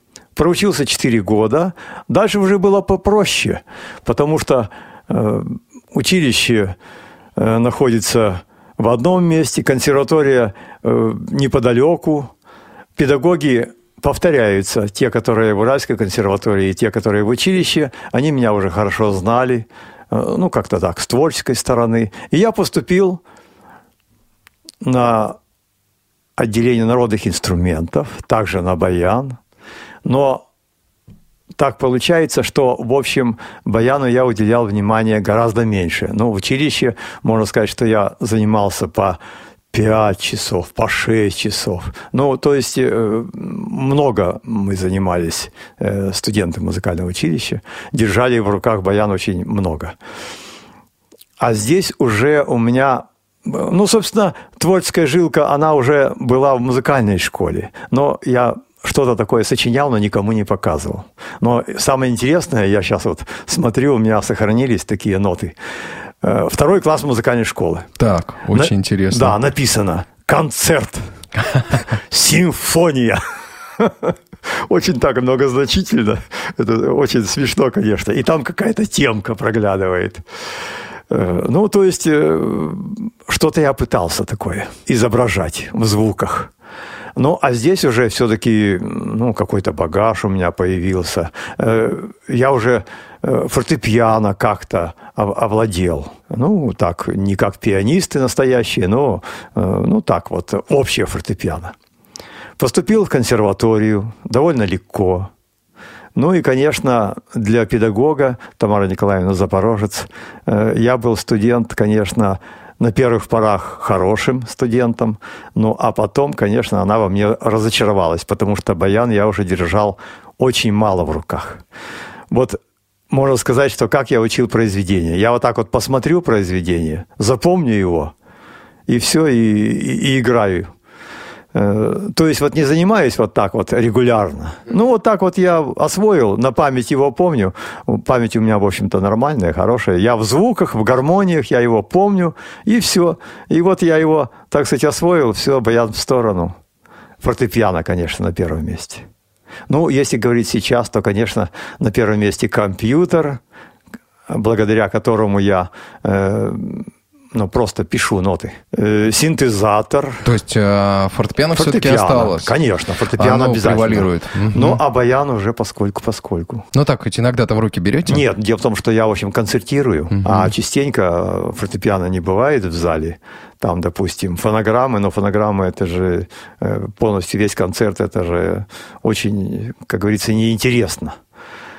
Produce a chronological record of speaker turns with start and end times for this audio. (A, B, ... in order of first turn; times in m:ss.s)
0:00.4-0:06.8 A
0:07.4-0:12.3 A
0:13.0-0:23.2 A
0:24.8-0:25.4 A
0:26.4-0:29.4 A
0:30.0-0:30.4 A
0:31.6-0:39.2 A
0:39.7-0:50.0 A
0:51.4-1:05.6 A
1:06.2-1:07.9 A
1:08.0-1:09.4 B
1:08.5-1:11.0 A
1:12.0-1:13.2 A
1:13.8-1:20.2 A
1:21.1-1:26.5 A
1:27.2-1:41.7 A
1:42.6-1:45.3 A
1:46.2-2:01.6 A
2:02.3-2:02.6 A
2:03.1-2:08.1 A
2:08.9-2:10.7 A
2:11.5-2:26.6 A
2:27.2-2:29.1 A
2:29.7-2:33.4 A
2:34.3-2:40.3 A
2:40.2-2:42.5 B
2:41.6-2:46.7 A
2:43.2-2:44.8 B
2:46.7-2:48.2 B
2:48.1-3:01.2 A
2:50.1-2:50.5 B